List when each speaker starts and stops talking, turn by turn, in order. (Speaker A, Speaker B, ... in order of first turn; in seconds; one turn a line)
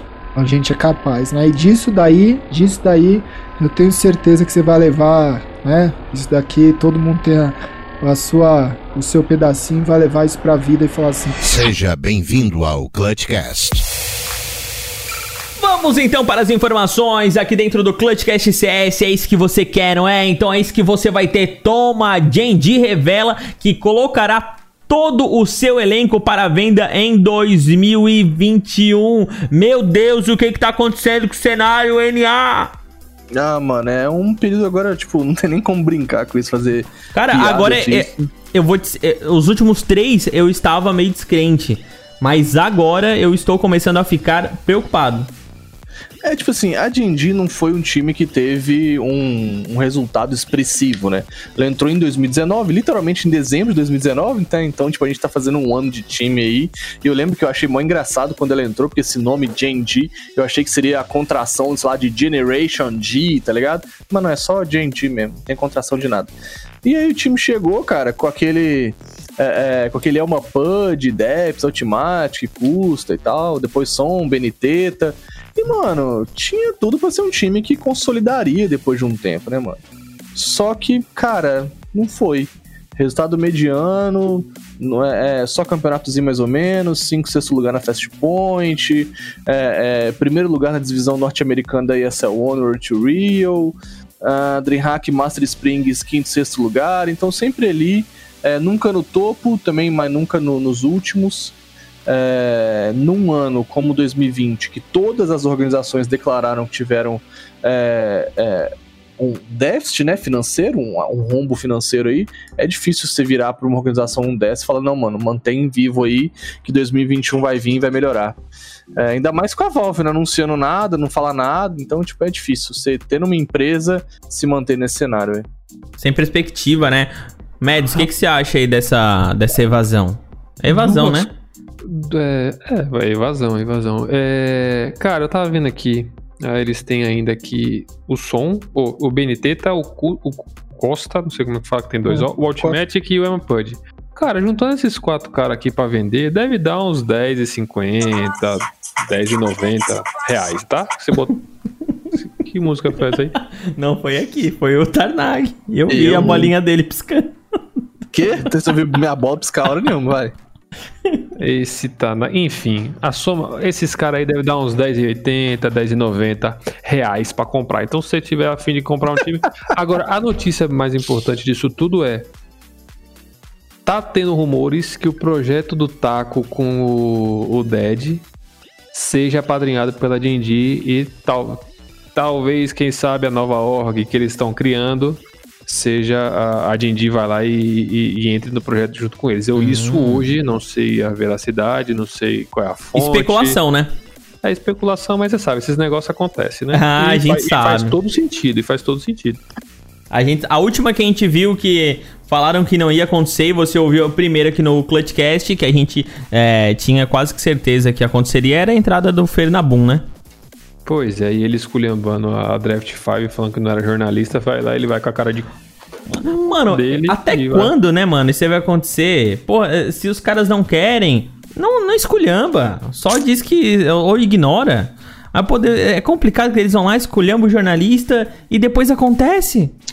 Speaker A: 0.3-11.4
Speaker B: 11.4-13.9
Speaker C: 15.6-32.7
Speaker D: 33.3-38.3
Speaker C: 37.1-45.3
Speaker D: 46.2-79.8
Speaker D: 80.3-101.5
Speaker D: 102.0-118.4
Speaker D: 119.0-125.5
Speaker C: 126.0-131.3
Speaker E: 130.7-131.3
Speaker E: 131.8-151.4
Speaker D: 142.1-142.8
Speaker E: 152.1-153.4
Speaker C: 153.7-157.4
Speaker D: 155.9-156.5
Speaker D: 158.1-160.3
Speaker E: 161.4-172.3
Speaker E: 173.8-178.2
Speaker E: 178.9-193.6
Speaker C: 189.6-190.3
Speaker C: 192.9-193.9
Speaker E: 194.4-199.4
Speaker C: 196.7-197.9
Speaker C: 200.1-210.1
Speaker E: 210.8-215.5
Speaker C: 216.1-229.7
Speaker E: 216.7-217.7